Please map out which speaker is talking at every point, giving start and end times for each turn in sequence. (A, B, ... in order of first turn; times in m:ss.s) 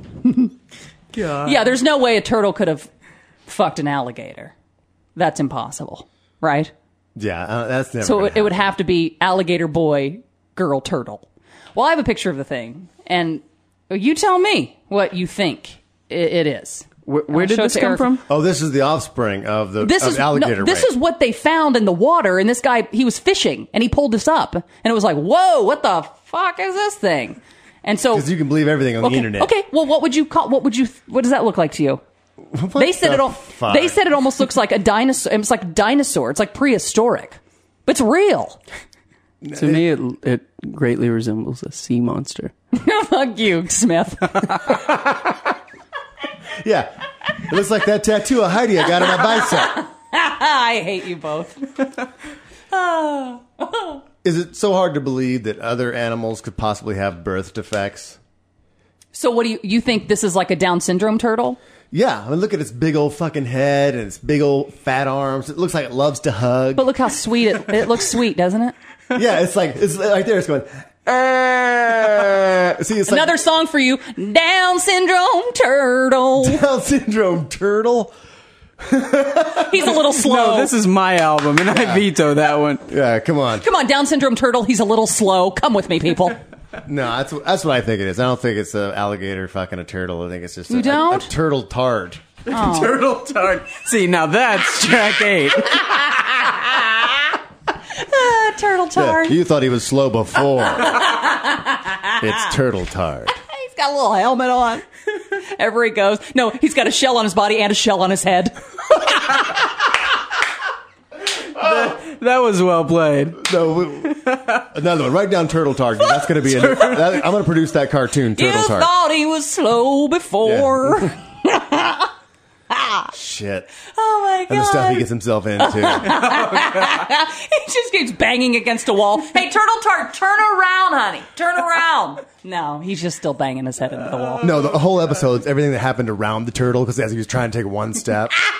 0:00.2-0:00.5 A
0:01.2-0:02.9 A
0:03.5-0:04.5 A
0:05.2-0:06.7 A
0:07.2-0:08.7 B
0:08.0-0:18.1 A
0:17.0-0:18.2 C
0:18.3-0:20.9 B
0:19.8-0:28.3 A
0:28.1-0:29.5 B
0:29.0-0:32.0 A
0:32.5-0:34.0 B
0:32.7-0:38.6 A
0:39.4-0:39.8 B
0:39.5-0:42.5 C
0:42.7-0:44.6 A
0:44.6-0:45.5 B
0:46.6-0:49.8 B
0:49.4-0:51.7 A
0:52.7-0:54.0 A
0:54.2-0:58.2 B
0:59.1-1:01.6 A
1:01.9-1:06.9 B
1:06.7-1:08.7 A
1:09.1-1:13.4 B
1:13.1-1:16.6 A
1:16.4-1:18.1 B
1:18.8-1:19.8 B
1:19.6-1:20.7 A
1:20.0-1:22.9 C
1:21.7-1:22.0 B
1:22.9-1:23.6 B
1:23.6-1:26.4 A
1:26.8-1:32.2 B
1:30.7-1:31.3 A
1:32.5-1:33.0 A
1:32.5-1:36.6 C
1:37.9-1:39.4 A
1:38.9-1:41.0 B
1:40.8-1:42.2 A
1:42.2-1:43.3 B
1:43.4-1:44.8 A
1:45.4-1:48.6 A
1:51.5-1:53.4 C
1:53.4-1:58.9 B
1:54.3-1:54.5 C
1:56.6-1:57.0 C
1:58.4-2:02.1 A
2:00.4-2:01.1 B
2:02.7-2:03.1 A
2:03.1-2:03.7 B
2:03.9-2:05.0 A
2:04.5-2:06.3 B
2:05.6-2:14.7 A
2:14.4-2:18.4 B